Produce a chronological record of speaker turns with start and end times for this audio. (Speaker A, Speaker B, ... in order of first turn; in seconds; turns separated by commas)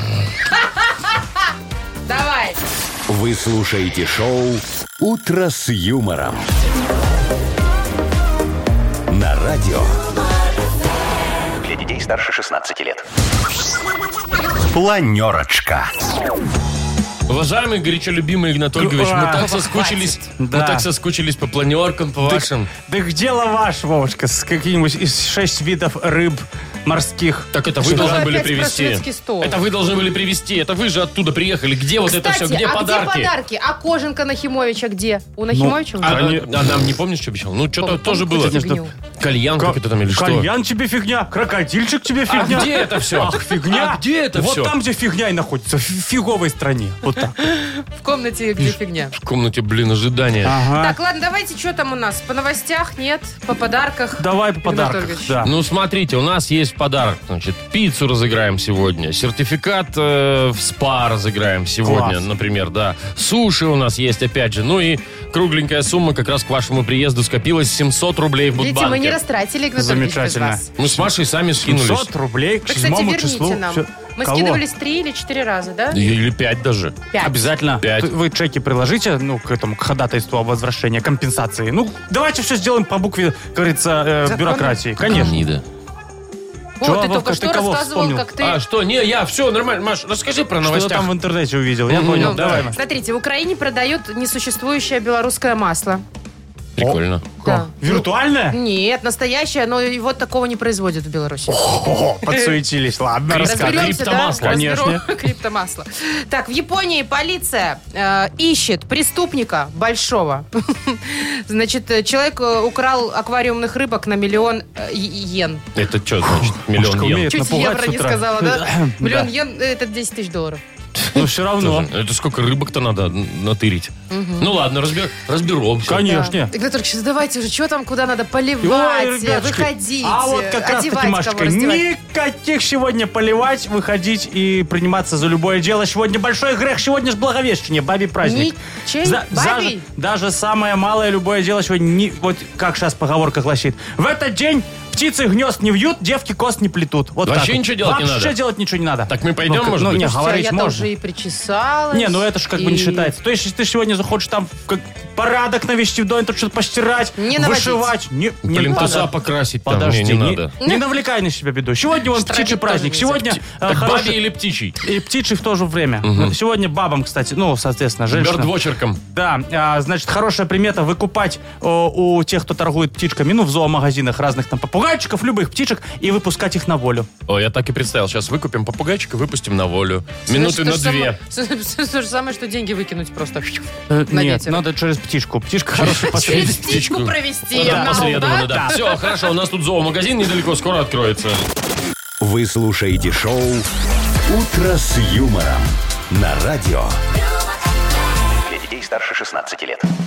Speaker A: 0.6-1.1, Speaker A: 2.1-2.6, Speaker B: 3.1-6.5, Speaker B: 9.1-10.0, Speaker B: 11.6-13.1, Speaker B: 14.7-15.9, Speaker C: 17.3-22.7, Speaker D: 18.8-20.9, Speaker A: 19.5-20.1, Speaker D: 22.2-28.3, Speaker C: 27.5-33.3, Speaker A: 27.9-29.6, Speaker A: 32.1-36.3, Speaker D: 35.5-36.5, Speaker C: 36.0-38.6, Speaker A: 37.8-38.9, Speaker D: 38.4-38.9, Speaker C: 39.2-40.5, Speaker D: 39.6-47.4, Speaker C: 42.3-44.7, Speaker A: 47.4-49.1, Speaker C: 49.1-50.6, Speaker D: 50.4-51.0, Speaker A: 50.8-55.4, Speaker D: 54.2-55.5, Speaker C: 55.4-69.2, Speaker D: 61.8-62.2, Speaker A: 68.6-70.7, Speaker D: 69.8-71.0, Speaker C: 70.8-72.1, Speaker D: 71.6-74.6, Speaker A: 72.7-76.0, Speaker C: 75.9-77.0, Speaker A: 77.1-77.5, Speaker D: 77.2-85.4, Speaker C: 77.8-78.1, Speaker A: 84.3-85.3, Speaker C: 85.1-85.6, Speaker A: 86.8-88.6, Speaker D: 86.8-88.3, Speaker C: 88.4-91.1, Speaker D: 90.6-92.8, Speaker C: 91.9-92.7, Speaker A: 92.2-96.0, Speaker C: 96.8-97.2, Speaker D: 96.8-98.6, Speaker A: 97.4-101.6, Speaker D: 101.5-105.0, Speaker A: 102.2-102.5, Speaker C: 103.3-104.7, Speaker A: 103.5-115.6, Speaker C: 115.8-117.3, Speaker D: 116.2-119.3, Speaker A: 117.3-120.6, Speaker D: 121.0-121.9, Speaker C: 121.2-126.1, Speaker A: 124.1-124.6, Speaker D: 125.9-126.5, Speaker A: 126.0-131.9, Speaker D: 128.6-150.9, Speaker A: 138.2-139.8, Speaker C: 147.2-148.4, Speaker C: 149.1-150.0, Speaker A: 150.0-153.1, Speaker D: 151.9-164.2, Speaker A: 157.2-157.9, Speaker C: 158.5-160.5, Speaker A: 162.1-163.4, Speaker C: 163.6-164.8, Speaker D: 164.8-168.5, Speaker C: 166.0-166.3, Speaker C: 168.1-169.0, Speaker D: 169.1-177.1, Speaker C: 177.3-181.2, Speaker A: 180.3-184.6, Speaker D: 183.9-186.9, Speaker C: 185.8-191.4, Speaker A: 186.1-188.8, Speaker D: 187.5-188.8, Speaker B: 192.2-193.7, Speaker B: 194.3-197.0, Speaker B: 198.4-199.9